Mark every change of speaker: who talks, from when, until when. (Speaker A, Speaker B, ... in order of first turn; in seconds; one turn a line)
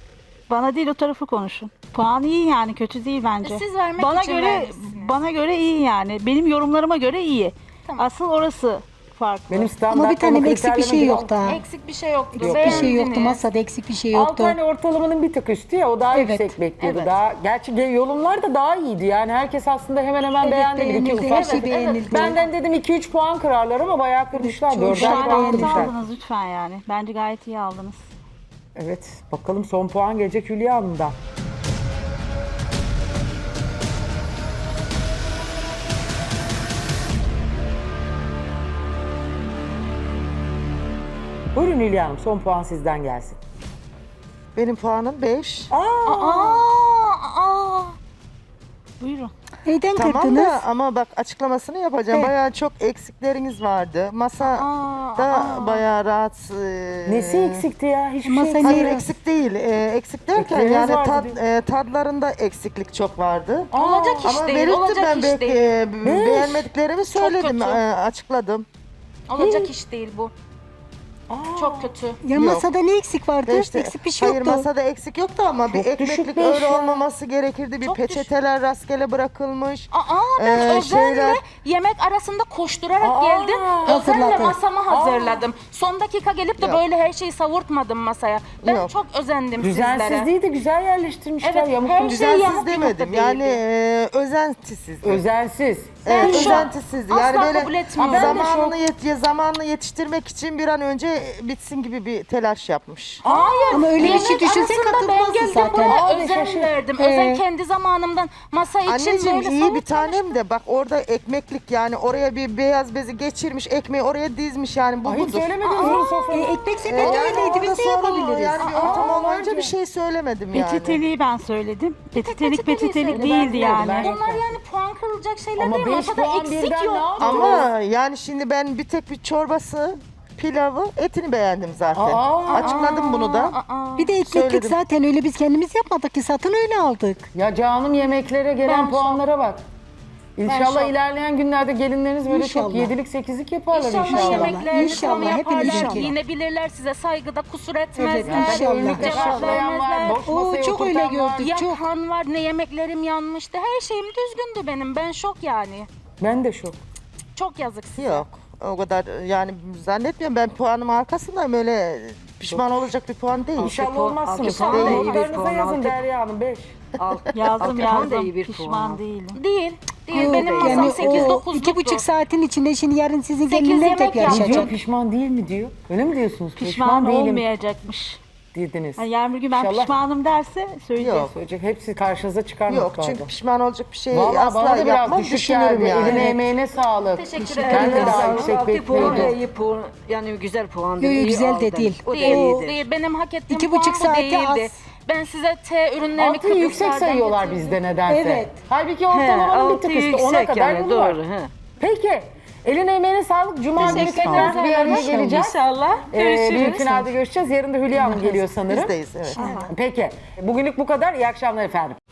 Speaker A: 0.5-9.8
Speaker B: 3.4-5.2
Speaker C: 9.5-11.5
Speaker D: 9.9-11.6
Speaker B: 11.4-13.4
Speaker D: 12.3-14.6
Speaker C: 12.4-12.9
Speaker C: 14.1-25.9
Speaker D: 16.1-16.6
Speaker B: 16.8-17.1
Speaker D: 20.4-22.4
Speaker B: 21.2-22.4
Speaker D: 24.4-25.9
Speaker A: 24.9-28.0
Speaker B: 25.3-25.7
Speaker C: 28.8-31.1
Speaker C: 41.5-43.4
Speaker E: 44.5-45.7
Speaker C: 45.7-46.6
Speaker B: 46.1-48.0
Speaker A: 49.0-49.3
Speaker D: 49.6-50.6
Speaker E: 49.9-57.6
Speaker B: 54.4-55.9
Speaker C: 57.1-59.0
Speaker D: 58.2-59.1
Speaker E: 58.6-63.7
Speaker C: 60.3-61.4
Speaker C: 63.7-64.3
Speaker B: 63.7-65.7
Speaker E: 64.2-68.7
Speaker C: 66.0-66.7
Speaker B: 67.1-67.8
Speaker B: 69.3-70.3
Speaker C: 69.4-69.7
Speaker C: 71.3-71.9
Speaker B: 71.5-72.2
Speaker D: 72.2-74.7
Speaker E: 72.3-72.7
Speaker E: 73.4-81.4
Speaker C: 75.7-77.0
Speaker B: 77.8-78.3
Speaker B: 79.9-90.3
Speaker C: 83.0-84.1
Speaker D: 83.8-84.6
Speaker C: 84.9-85.4
Speaker E: 88.6-88.9
Speaker C: 89.6-92.2
Speaker B: 91.4-93.6
Speaker E: 92.1-95.2
Speaker C: 95.0-96.7
Speaker E: 96.0-103.2
Speaker B: 96.1-98.5
Speaker C: 98.0-98.8
Speaker C: 103.2-103.8
Speaker B: 103.2-110.4
Speaker D: 103.7-106.0
Speaker E: 104.0-104.3
Speaker C: 105.9-106.7
Speaker D: 107.0-107.4
Speaker E: 108.8-115.5
Speaker C: 115.0-116.5
Speaker B: 115.6-116.3
Speaker D: 115.8-118.7
Speaker E: 116.8-121.0
Speaker B: 117.0-117.3
Speaker B: 118.6-119.2
Speaker C: 118.8-119.8
Speaker A: 120.5-124.1
Speaker B: 122.2-127.7
Speaker C: 123.1-124.6
Speaker C: 125.6-127.7
Speaker E: 127.2-133.6
Speaker C: 131.9-132.8
Speaker B: 132.5-134.2
Speaker D: 134.0-137.3
Speaker E: 134.2-134.8
Speaker C: 137.3-139.6
Speaker B: 138.6-139.2
Speaker C: 140.4-146.1
Speaker B: 140.4-140.9
Speaker D: 142.3-142.9
Speaker B: 143.7-150.2
Speaker D: 144.0-146.1
Speaker D: 147.9-149.6
Speaker C: 148.2-151.5
Speaker D: 150.2-151.8
Speaker B: 151.4-155.9
Speaker C: 156.2-156.8
Speaker B: 157.3-158.2
Speaker E: 157.9-163.8
Speaker C: 163.6-166.8
Speaker F: 163.7-166.0
Speaker B: 164.4-165.3
Speaker E: 164.6-165.1
Speaker F: 167.0-169.0
Speaker A: 167.3-169.4
Speaker B: 169.3-172.0
Speaker D: 170.1-174.7
Speaker F: 170.2-171.2
Speaker A: 170.5-170.9
Speaker B: 173.5-174.8
Speaker C: 174.3-177.5
Speaker A: 176.6-178.2
Speaker C: 178.5-179.9
Speaker A: 179.0-181.2
Speaker E: 181.0-181.3
Speaker C: 181.2-183.3
Speaker E: 182.7-186.3
Speaker C: 184.1-189.4
Speaker D: 185.7-186.4
Speaker B: 187.1-189.3
Speaker D: 187.3-188.3
Speaker F: 187.6-192.8
Speaker D: 189.0-189.2
Speaker D: 191.0-192.7
Speaker B: 192.1-197.8
Speaker D: 193.5-194.8
Speaker C: 196.2-201.2
Speaker D: 198.1-198.6
Speaker F: 199.1-201.5
Speaker C: 201.8-205.6
Speaker B: 203.8-207.1
Speaker F: 203.8-204.6
Speaker C: 206.1-208.9
Speaker E: 207.9-209.7
Speaker D: 209.4-209.7
Speaker C: 209.6-212.0